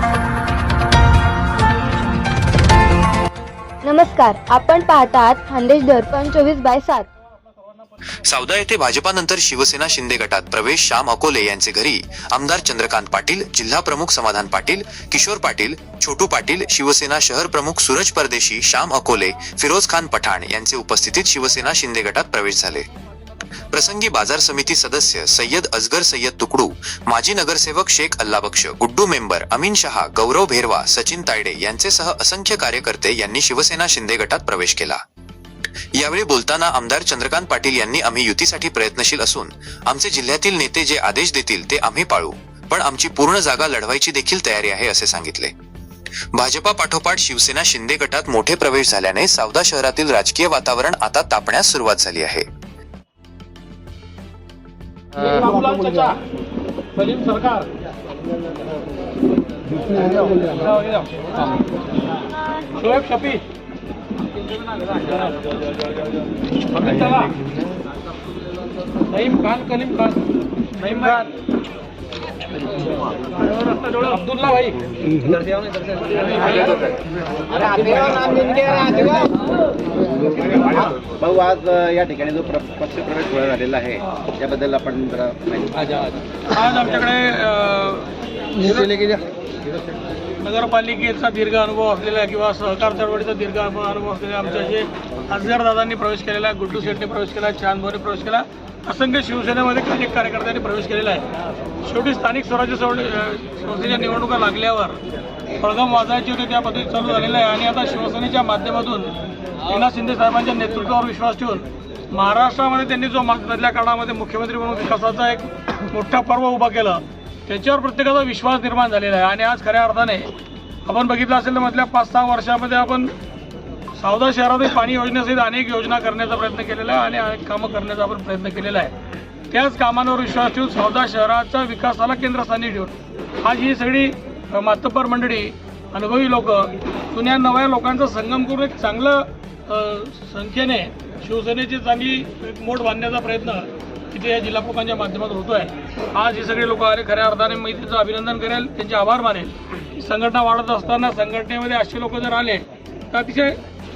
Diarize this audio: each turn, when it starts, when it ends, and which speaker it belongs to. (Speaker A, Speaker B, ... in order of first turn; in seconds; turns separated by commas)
Speaker A: 1.6-2.3, Speaker A: 3.8-7.1, Speaker B: 8.2-22.8, Speaker B: 23.7-35.0, Speaker B: 36.0-45.5, Speaker B: 46.3-52.4, Speaker C: 62.8-63.1, Speaker C: 70.8-71.2, Speaker C: 73.7-74.2, Speaker D: 77.6-79.3, Speaker D: 80.0-86.1, Speaker C: 86.5-88.1, Speaker D: 88.6-89.2, Speaker C: 90.4-101.2, Speaker C: 101.8-105.0, Speaker C: 105.6-120.3, Speaker C: 120.8-123.1, Speaker C: 124.0-128.9, Speaker C: 129.5-153.6